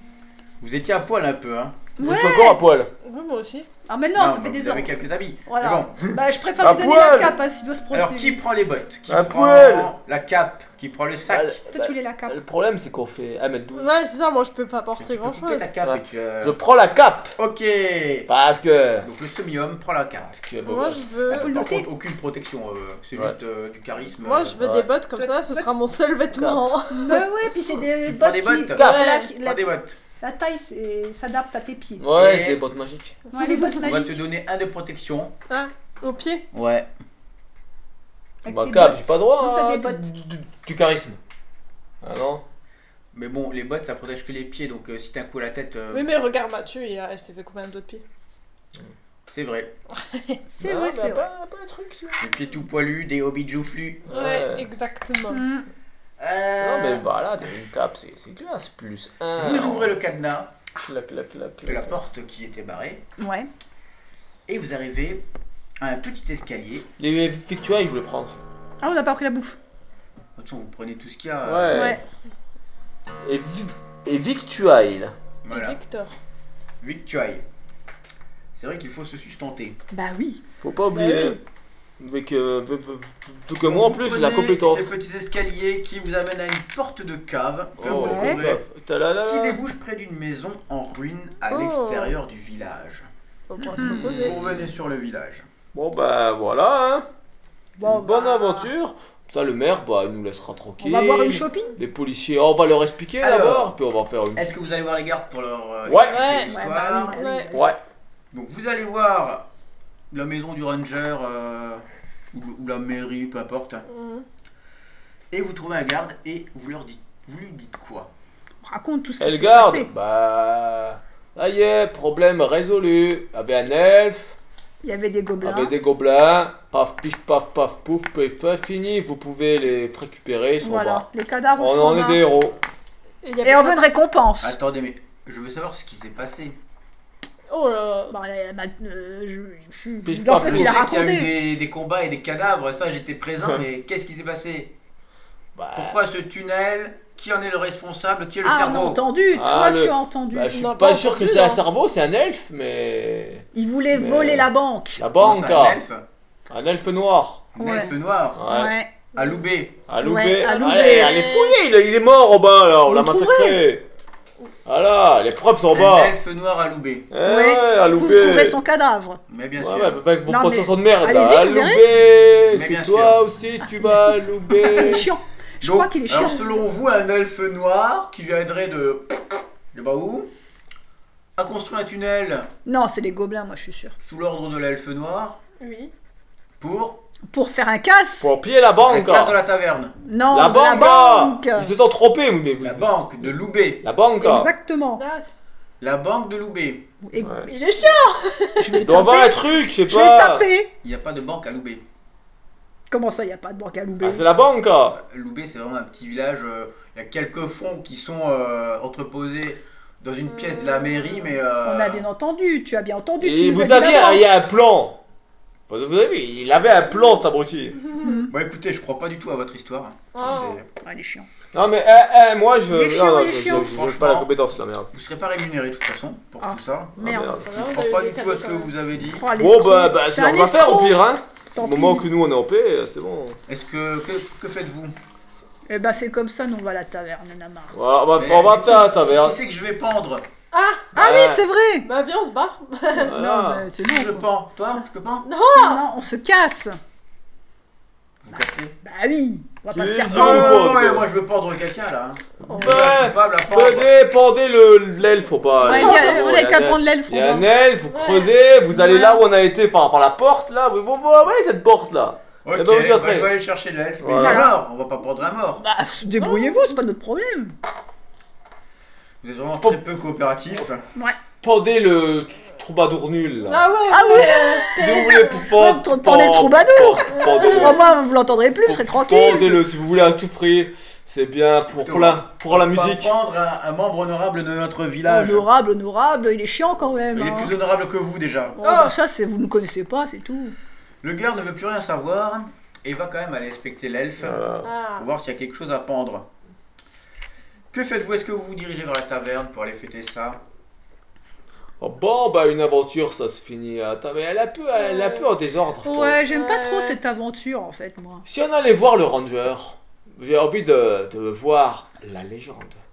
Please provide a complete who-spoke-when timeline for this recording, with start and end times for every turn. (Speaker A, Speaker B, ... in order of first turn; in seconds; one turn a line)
Speaker A: 0.6-1.8
Speaker B: 2.0-2.6
Speaker C: 2.0-2.9
Speaker D: 3.0-3.7
Speaker B: 3.9-8.4
Speaker A: 4.1-6.0
Speaker C: 6.6-7.4
Speaker A: 7.9-11.6
Speaker C: 9.1-9.9
Speaker C: 11.3-13.9
Speaker B: 11.7-12.4
Speaker D: 13.7-15.7
Speaker A: 15.0-16.6
Speaker C: 15.8-17.3
Speaker A: 17.4-18.3
Speaker C: 18.3-19.1
Speaker A: 19.0-20.3
Speaker C: 20.2-21.4
Speaker D: 20.6-21.6
Speaker A: 21.3-24.6
Speaker B: 21.4-21.9
Speaker D: 24.2-27.2
Speaker C: 24.6-24.9
Speaker B: 25.1-25.7
Speaker C: 26.3-26.6
Speaker B: 26.9-29.7
Speaker A: 28.0-30.0
Speaker D: 28.8-29.3
Speaker B: 30.2-32.0
Speaker C: 32.0-33.2
Speaker A: 32.1-32.6
Speaker B: 33.3-34.2
Speaker D: 33.3-33.7
Speaker A: 33.8-35.3
Speaker D: 35.5-36.5
Speaker A: 36.5-36.9
Speaker B: 38.4-40.1
Speaker C: 38.5-41.2
Speaker C: 42.0-42.4
Speaker A: 43.1-46.1
Speaker D: 45.9-48.0
Speaker A: 49.3-49.7
Speaker B: 50.5-51.2
Speaker C: 50.6-52.2
Speaker A: 52.2-54.1
Speaker C: 54.1-54.7
Speaker D: 54.1-55.4
Speaker B: 55.3-55.6
Speaker A: 56.2-57.0
Speaker C: 56.6-60.0
Speaker A: 59.4-60.6
Speaker C: 60.8-62.0
Speaker A: 61.6-63.0
Speaker B: 63.2-63.5
Speaker A: 64.5-65.2
Speaker A: 65.8-66.9
Speaker C: 67.0-68.4
Speaker B: 68.8-69.6
Speaker A: 70.3-71.9
Speaker C: 71.4-72.0
Speaker B: 71.7-72.0
Speaker C: 73.2-75.1
Speaker A: 75.4-75.8
Speaker D: 75.5-76.1
Speaker A: 76.8-77.4
Speaker A: 78.5-79.8
Speaker B: 79.9-80.4
Speaker C: 80.6-81.4
Speaker D: 80.9-81.4
Speaker C: 82.0-84.9
Speaker A: 83.6-88.6
Speaker C: 87.8-89.6
Speaker B: 87.8-88.4
Speaker A: 89.2-93.1
Speaker D: 91.5-92.2
Speaker D: 93.5-94.4
Speaker B: 93.6-94.3
Speaker C: 93.8-94.7
Speaker A: 93.8-95.5
Speaker C: 95.7-97.1
Speaker B: 97.8-98.7
Speaker C: 97.8-104.5
Speaker B: 100.8-101.8
Speaker A: 103.2-103.8
Speaker A: 104.3-107.2
Speaker C: 105.8-106.3
Speaker D: 106.1-106.6
Speaker B: 106.5-107.8
Speaker D: 107.1-107.5
Speaker C: 107.5-107.8
Speaker A: 108.3-109.5
Speaker A: 110.1-113.8
Speaker D: 113.9-114.2
Speaker A: 115.3-118.1
Speaker B: 118.6-119.9
Speaker C: 119.2-124.3
Speaker B: 124.8-125.7
Speaker C: 125.4-132.6
Speaker B: 130.6-132.2
Speaker D: 133.2-133.9
Speaker B: 133.4-134.6
Speaker A: 134.4-136.6
Speaker D: 137.5-138.2
Speaker B: 138.1-141.3
Speaker C: 140.0-140.8
Speaker A: 140.4-144.7
Speaker C: 145.5-146.0
Speaker A: 145.7-149.0
Speaker B: 148.4-150.6
Speaker C: 149.3-155.8
Speaker D: 150.5-151.6
Speaker B: 153.5-155.0
Speaker A: 155.2-156.0
Speaker C: 156.5-157.4
Speaker A: 157.5-158.4
Speaker B: 157.6-158.9
Speaker C: 158.3-158.7
Speaker A: 159.1-159.8
Speaker C: 159.9-163.8
Speaker B: 160.0-161.2
Speaker D: 160.4-161.6
Speaker B: 162.8-163.6
Speaker C: 164.7-166.1
Speaker A: 165.7-167.1
Speaker C: 167.1-168.6
Speaker B: 167.2-169.2
Speaker A: 169.3-170.0
Speaker C: 169.6-175.1
Speaker B: 170.2-171.8
Speaker A: 172.5-173.2
Speaker B: 173.6-176.6
Speaker A: 175.6-180.3
Speaker A: 181.4-182.5
Speaker B: 182.6-183.9
Speaker A: 184.0-185.4
Speaker D: 185.6-185.9
Speaker A: 186.6-187.0
Speaker B: 187.3-188.3
Speaker C: 188.2-189.4
Speaker A: 188.8-189.9
Speaker B: 190.0-191.7
Speaker C: 190.3-194.5
Speaker A: 192.6-193.8
Speaker B: 194.2-195.0
Speaker D: 195.0-195.4
Speaker A: 195.8-196.9
Speaker B: 197.0-197.9
Speaker C: 197.2-197.5
Speaker D: 197.5-198.8
Speaker B: 198.6-200.7
Speaker C: 198.7-200.5
Speaker A: 200.8-201.8
Speaker B: 202.9-204.2
Speaker C: 204.0-205.0
Speaker A: 204.9-212.1
Speaker D: 210.3-211.3
Speaker B: 211.6-214.3
Speaker C: 213.2-215.0
Speaker C: 215.7-217.8
Speaker B: 218.0-218.3
Speaker A: 218.3-220.7
Speaker D: 220.1-220.6
Speaker B: 220.8-221.3
Speaker C: 221.5-224.9
Speaker B: 222.7-223.7
Speaker A: 223.4-224.3
Speaker A: 224.9-227.0
Speaker B: 226.4-227.4
Speaker C: 227.0-227.5
Speaker D: 227.1-228.7
Speaker A: 227.5-229.3
Speaker B: 229.1-231.0
Speaker C: 229.3-233.4
Speaker B: 231.5-232.1
Speaker A: 233.5-234.9
Speaker B: 235.7-237.8
Speaker C: 237.7-239.4
Speaker A: 238.1-240.3
Speaker D: 240.5-240.9
Speaker C: 240.9-241.4
Speaker B: 240.9-241.9
Speaker D: 241.8-243.2
Speaker C: 242.9-243.7
Speaker B: 242.9-244.3
Speaker A: 243.8-245.3
Speaker D: 245.2-245.8
Speaker B: 245.5-246.8
Speaker A: 248.2-248.7
Speaker B: 248.3-250.7
Speaker C: 249.7-251.1
Speaker A: 250.1-253.9
Speaker C: 252.4-263.3
Speaker D: 252.5-252.8
Speaker B: 255.6-257.5
Speaker D: 255.7-256.3
Speaker D: 257.9-258.3
Speaker B: 258.7-259.2
Speaker A: 262.4-265.6
Speaker C: 264.0-264.5
Speaker B: 264.2-264.5
Speaker B: 265.6-267.5
Speaker D: 266.2-266.8
Speaker A: 269.2-270.8
Speaker C: 271.4-273.7
Speaker D: 273.4-275.4
Speaker B: 273.9-279.6
Speaker C: 274.8-277.9
Speaker D: 277.1-277.9
Speaker C: 278.6-283.1
Speaker A: 281.7-285.5
Speaker B: 285.0-287.5
Speaker A: 287.1-288.6
Speaker B: 288.6-290.5
Speaker D: 288.6-288.9
Speaker A: 291.0-294.4
Speaker C: 294.2-294.7
Speaker D: 294.6-295.1
Speaker A: 294.9-296.3
Speaker A: 297.7-300.4
Speaker C: 301.8-306.2
Speaker D: 304.8-305.3
Speaker B: 305.8-308.2
Speaker D: 306.3-307.0
Speaker C: 308.2-312.8